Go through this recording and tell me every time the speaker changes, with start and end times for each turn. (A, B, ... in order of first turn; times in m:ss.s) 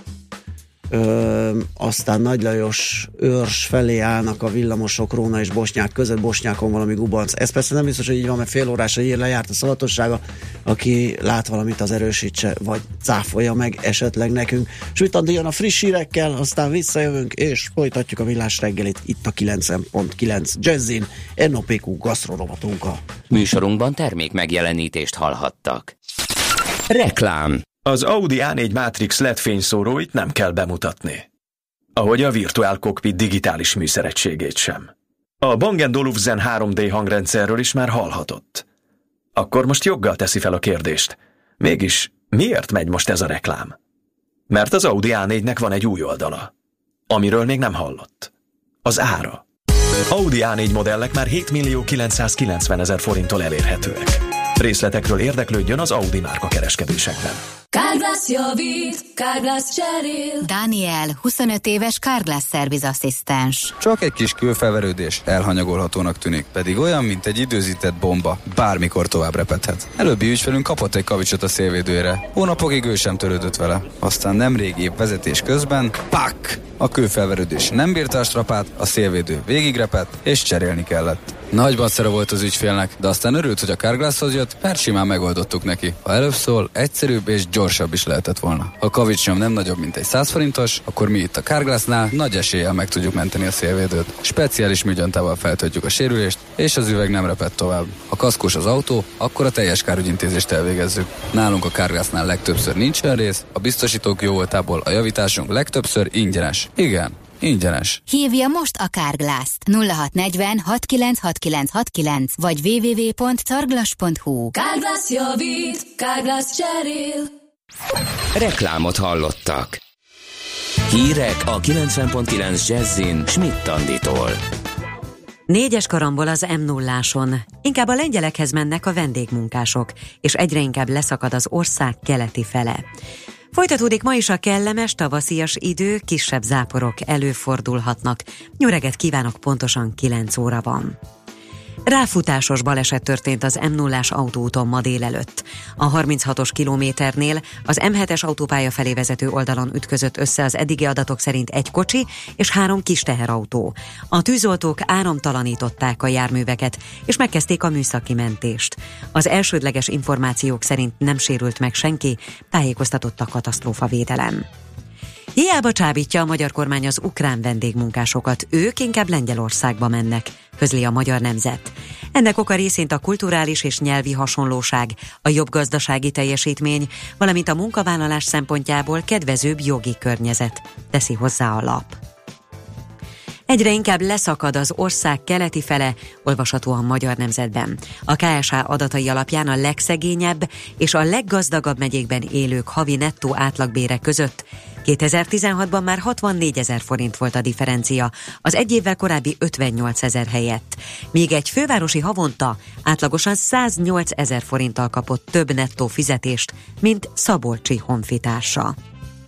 0:00.9-0:23.0 A
0:23.3-0:25.9 B
0:26.9-0:27.6 B
0:27.8-0:31.3 C
0:32.0-0:34.9 C
0:35.4-0:38.6 C
0:39.4-0:43.8 C
0:44.5-0:46.5 C
0:47.1-0:48.3 C
0:48.8-0:49.4 C
0:50.1-0:57.4 C
0:57.7-1:00.5 D
1:00.4-1:03.7 E
1:03.8-1:48.0 F
1:48.1-1:54.5 E
1:54.5-1:57.3 D
1:58.3-1:59.8 B
2:00.9-2:04.4 B
2:05.5-2:12.8 G
2:13.5-2:21.0 G
2:21.9-2:44.4 G
2:45.4-3:02.0 G
3:03.5-3:28.8 G